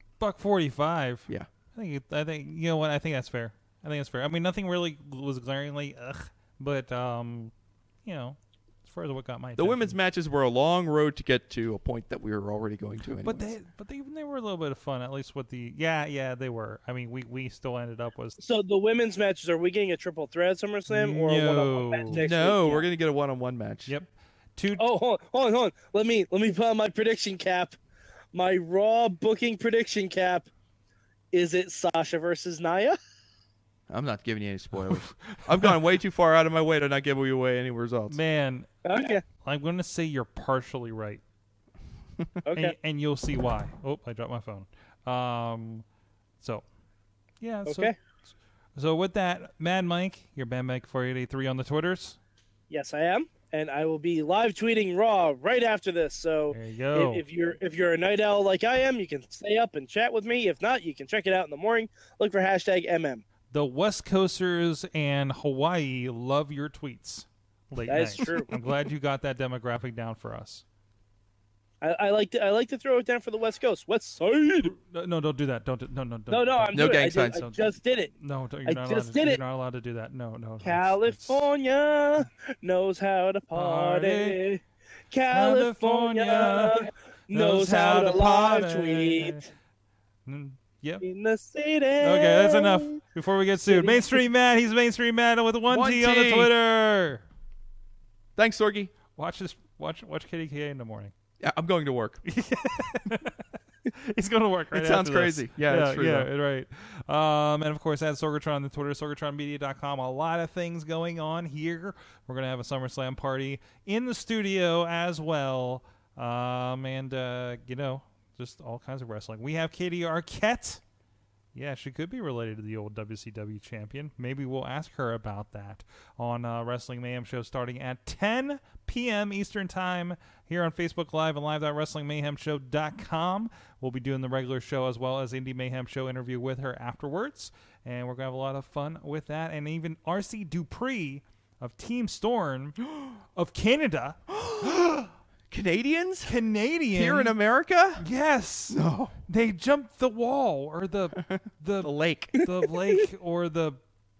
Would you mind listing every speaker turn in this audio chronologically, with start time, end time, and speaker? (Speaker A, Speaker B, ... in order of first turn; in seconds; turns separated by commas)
Speaker A: 0.2-7.5, Speaker A: 8.0-10.0, Speaker B: 9.6-13.5, Speaker A: 13.2-18.4, Speaker C: 18.4-22.9, Speaker A: 20.9-22.2, Speaker B: 22.2-23.9, Speaker A: 23.9-24.9, Speaker C: 24.8-27.8, Speaker C: 28.3-30.5, Speaker C: 31.3-33.0, Speaker B: 33.9-38.2, Speaker A: 34.8-35.4, Speaker A: 38.1-38.7, Speaker C: 38.8-39.2, Speaker A: 39.3-41.2, Speaker C: 42.4-42.7, Speaker A: 42.5-45.8, Speaker A: 47.4-47.9, Speaker C: 47.6-47.9, Speaker A: 48.7-52.2, Speaker C: 52.7-63.2, Speaker A: 56.5-57.2, Speaker A: 63.5-70.6, Speaker C: 67.9-68.5, Speaker C: 71.8-74.7, Speaker A: 74.6-77.6, Speaker C: 76.3-78.1, Speaker B: 76.7-77.5, Speaker A: 78.2-81.4, Speaker C: 78.7-79.4, Speaker C: 80.6-89.4, Speaker A: 83.5-84.4, Speaker A: 85.3-86.8, Speaker A: 87.3-89.4, Speaker A: 90.2-91.0, Speaker C: 91.0-93.0, Speaker A: 92.0-97.2, Speaker C: 93.7-94.2, Speaker B: 95.7-96.5, Speaker B: 98.3-98.9, Speaker A: 99.1-101.1, Speaker B: 101.4-102.2, Speaker A: 102.2-120.8, Speaker B: 104.7-106.3, Speaker A: 121.5-142.8, Speaker A: 143.3-144.2, Speaker B: 144.3-146.3, Speaker A: 146.2-147.3, Speaker B: 146.9-148.0, Speaker A: 148.0-148.8, Speaker B: 148.7-149.2, Speaker A: 149.3-153.8, Speaker B: 151.8-152.3, Speaker C: 152.3-153.0